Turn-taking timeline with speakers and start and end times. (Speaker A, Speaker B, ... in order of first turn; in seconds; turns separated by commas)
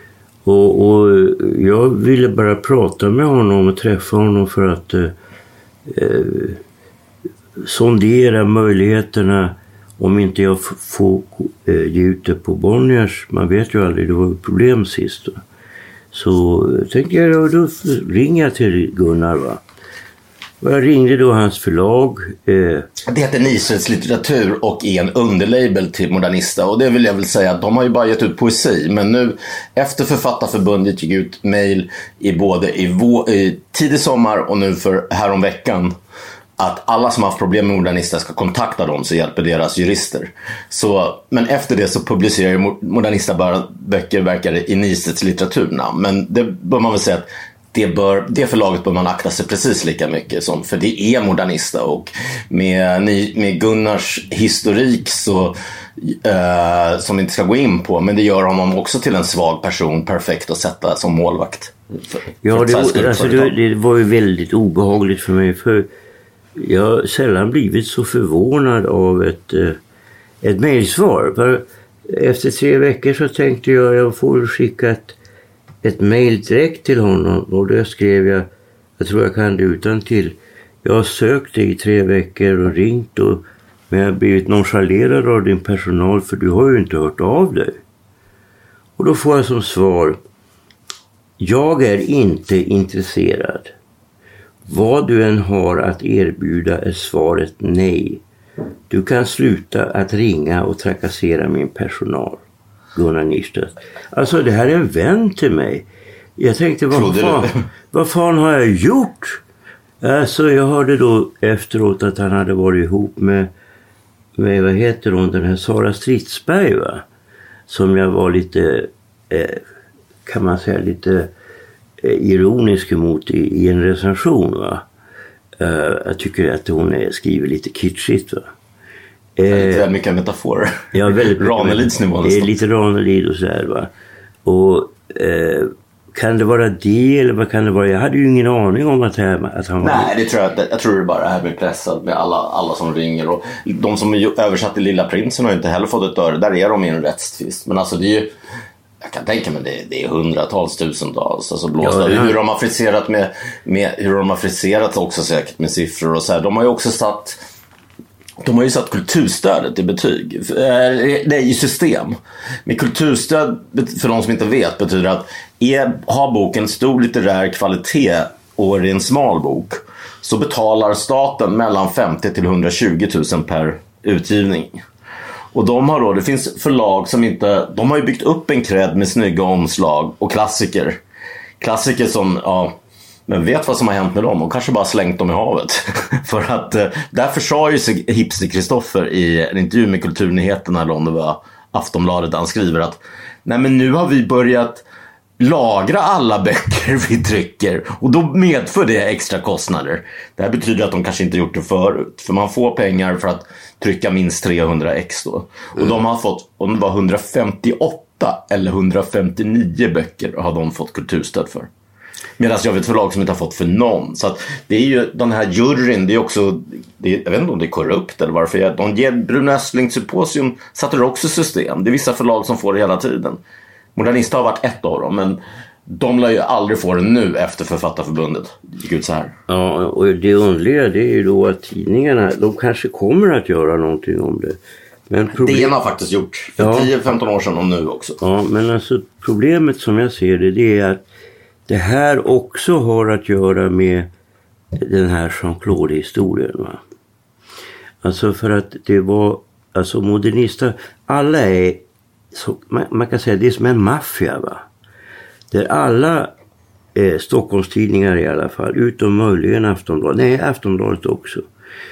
Speaker A: 0.5-5.1, Speaker A: 5.9-6.6, Speaker A: 7.6-15.4, Speaker A: 16.1-19.6, Speaker A: 20.6-22.9, Speaker B: 23.1-36.0, Speaker B: 36.6-61.8, Speaker A: 62.4-65.9, Speaker B: 62.5-63.5, Speaker A: 66.6-69.8, Speaker A: 70.4-75.2, Speaker A: 75.8-87.8, Speaker A: 89.0-90.2, Speaker A: 91.4-93.8, Speaker A: 94.7-98.2, Speaker A: 98.9-102.4, Speaker A: 103.0-105.8, Speaker A: 106.4-109.4, Speaker B: 106.9-107.6, Speaker A: 110.0-113.5, Speaker A: 114.4-117.0, Speaker A: 117.7-119.6, Speaker A: 120.3-121.3, Speaker A: 122.0-124.8, Speaker A: 125.6-128.5, Speaker A: 129.4-129.9, Speaker B: 129.5-132.5, Speaker A: 130.9-133.9, Speaker A: 134.4-140.1, Speaker B: 139.8-148.3, Speaker B: 149.0-157.4, Speaker A: 151.8-152.4, Speaker B: 158.4-174.8, Speaker B: 175.5-181.0, Speaker B: 181.6-194.8, Speaker B: 195.4-211.7, Speaker B: 212.4-223.4, Speaker B: 223.9-229.3, Speaker A: 229.5-235.7, Speaker B: 235.3-238.2, Speaker A: 236.6-236.9, Speaker A: 238.2-241.0, Speaker A: 241.7-244.1, Speaker A: 244.8-246.8, Speaker A: 248.0-254.7, Speaker A: 255.5-256.3, Speaker A: 256.9-261.5